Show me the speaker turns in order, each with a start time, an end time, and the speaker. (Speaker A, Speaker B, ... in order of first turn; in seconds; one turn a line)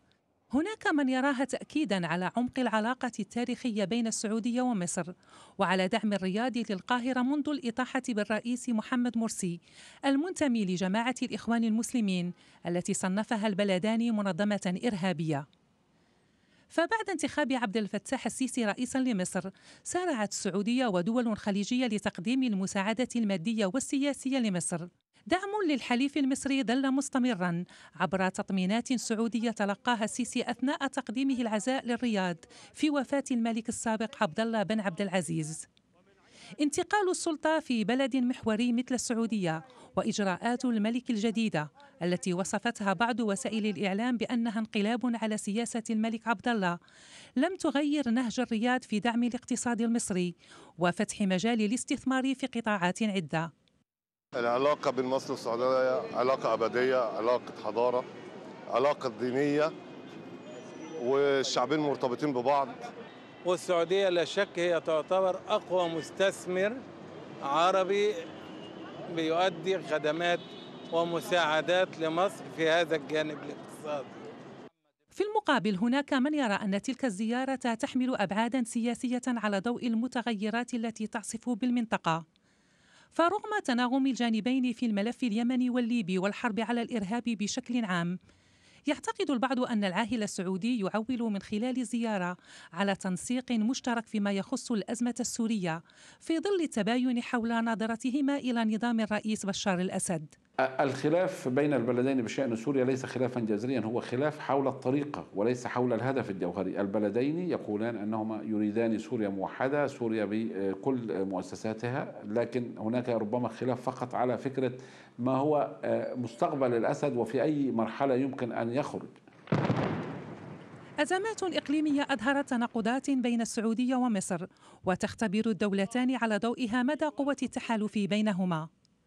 Speaker A: 0.5-15.4
Speaker A: 16.7-35.7
Speaker A: 36.6-46.8
Speaker A: 47.4-53.5
Speaker B: 54.3-58.1
Speaker B: 58.7-59.7
Speaker B: 61.0-62.8
Speaker C: 63.4-66.8
Speaker C: 67.4-68.1
Speaker C: 69.1-74.1
Speaker A: 75.1-82.2
Speaker A: 83.1-88.2
Speaker A: 88.9-100.3
Speaker D: 100.6-119.1
Speaker A: 121.0-128.7